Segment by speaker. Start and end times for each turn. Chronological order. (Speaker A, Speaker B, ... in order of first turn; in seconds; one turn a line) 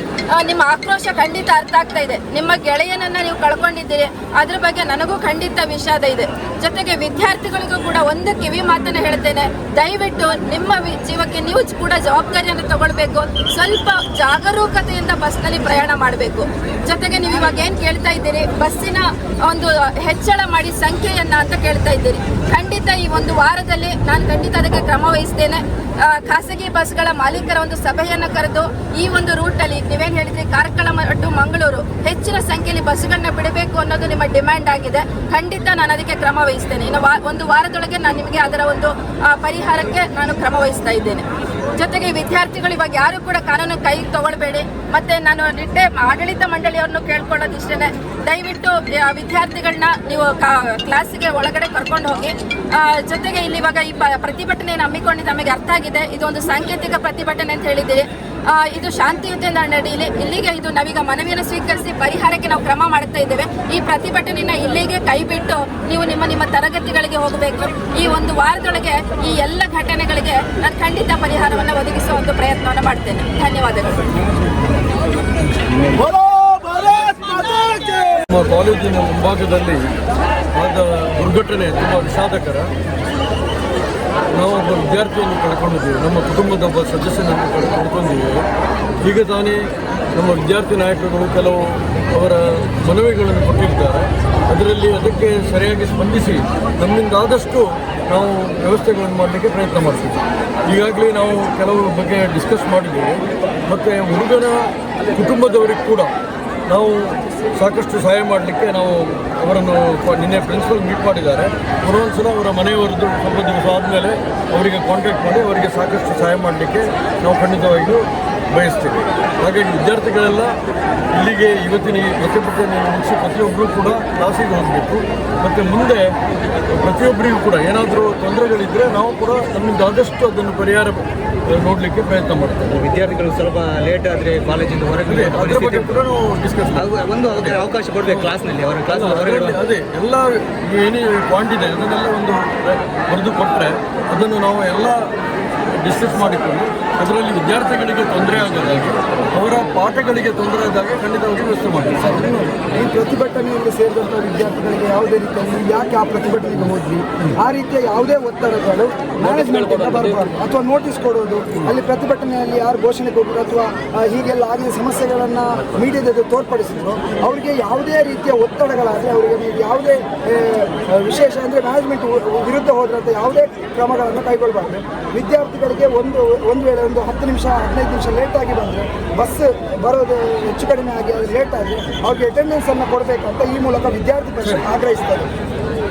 Speaker A: 0.3-41.2
Speaker A: 41.8-74.0
Speaker B: 76.0-78.2
Speaker C: 78.3-79.8
Speaker C: 80.5-82.7
Speaker C: 84.3-88.4
Speaker C: 89.0-106.1
Speaker C: 106.7-120.5
Speaker C: 121.1-126.1
Speaker C: 126.7-132.7
Speaker D: 132.7-136.0
Speaker C: 135.1-137.6
Speaker D: 136.7-139.6
Speaker C: 138.9-145.1
Speaker C: 145.8-152.0
Speaker B: 152.0-185.3
Speaker C: 159.2-160.2